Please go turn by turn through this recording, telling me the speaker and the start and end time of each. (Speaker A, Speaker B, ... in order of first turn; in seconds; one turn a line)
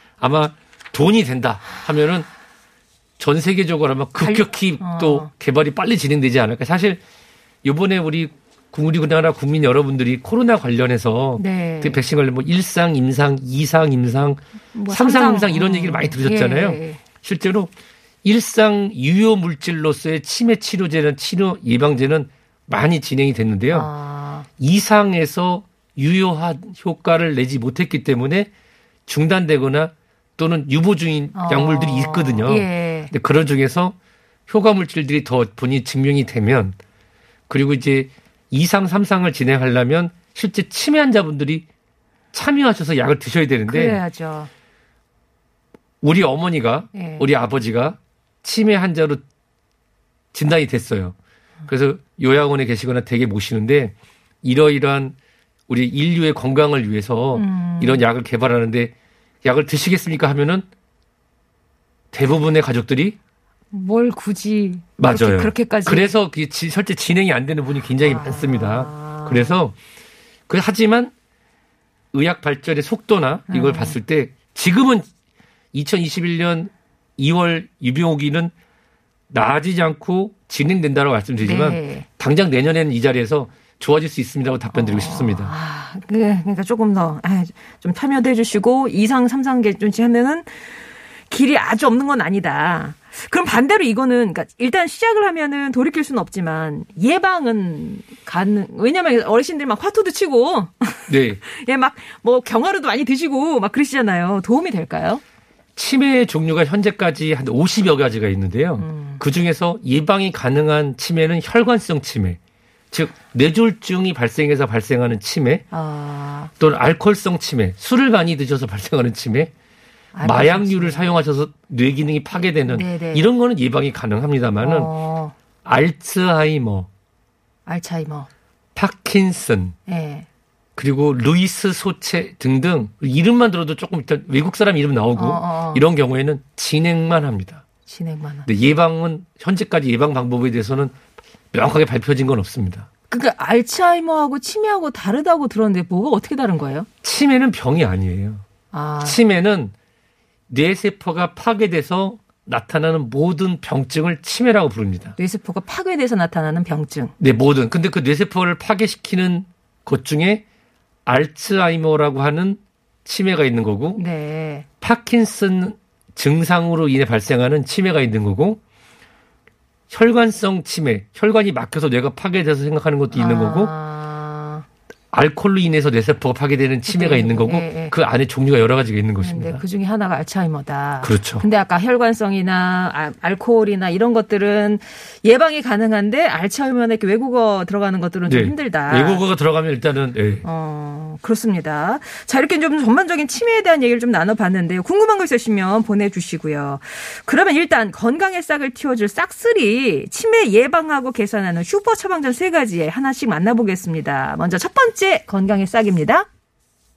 Speaker A: 0.2-2.3
Speaker A: 3.2-7.0
Speaker B: 4.2-5.3
Speaker A: 7.6-17.7
Speaker B: 11.4-12.0
Speaker B: 14.7-17.0
Speaker A: 18.2-23.9
Speaker B: 23.7-24.5
Speaker A: 24.6-28.5
Speaker A: 29.1-34.0
Speaker B: 31.4-33.1
Speaker A: 34.5-36.8
Speaker A: 37.5-41.6
Speaker A: 42.3-44.0
Speaker B: 43.7-44.5
Speaker A: 46.0-49.2
Speaker B: 46.9-47.2
Speaker A: 50.3-51.1
Speaker A: 51.7-55.1
Speaker A: 55.7-58.9
Speaker B: 57.4-58.0
Speaker A: 59.4-60.6
Speaker A: 62.1-63.2
Speaker B: 63.7-66.1
Speaker A: 65.0-69.8
Speaker B: 68.1-69.5
Speaker A: 70.5-71.1
Speaker A: 72.1-75.1
Speaker B: 73.5-74.0
Speaker A: 75.7-78.5
Speaker A: 79.3-85.5
Speaker B: 81.4-82.1
Speaker B: 84.7-90.6
Speaker B: 91.3-105.2
Speaker A: 101.1-101.4
Speaker A: 105.8-112.4
Speaker B: 108.8-109.2
Speaker A: 112.9-115.6
Speaker B: 115.7-116.5
Speaker A: 116.6-119.5
Speaker B: 120.1-121.0
Speaker A: 120.2-124.9
Speaker B: 122.7-123.2
Speaker B: 124.6-125.3
Speaker A: 125.6-126.9
Speaker B: 127.7-128.3
Speaker A: 128.8-129.8
Speaker B: 129.9-130.2
Speaker A: 130.8-137.6
Speaker B: 135.2-135.8
Speaker B: 137.9-138.5
Speaker A: 138.5-140.9
Speaker A: 141.5-142.9
Speaker B: 143.1-146.9
Speaker A: 147.0-148.4
Speaker B: 148.7-149.2
Speaker A: 149.0-149.7
Speaker A: 150.5-155.2
Speaker B: 155.2-157.1
Speaker A: 157.2-160.4
Speaker A: 161.1-164.0
Speaker B: 164.0-164.7
Speaker A: 164.8-168.6
Speaker A: 169.9-173.7
Speaker B: 173.1-174.6
Speaker A: 175.1-179.6
Speaker B: 176.9-177.9
Speaker B: 179.2-189.2
Speaker A: 181.0-181.4
Speaker A: 188.3-190.4
Speaker B: 190.4-206.3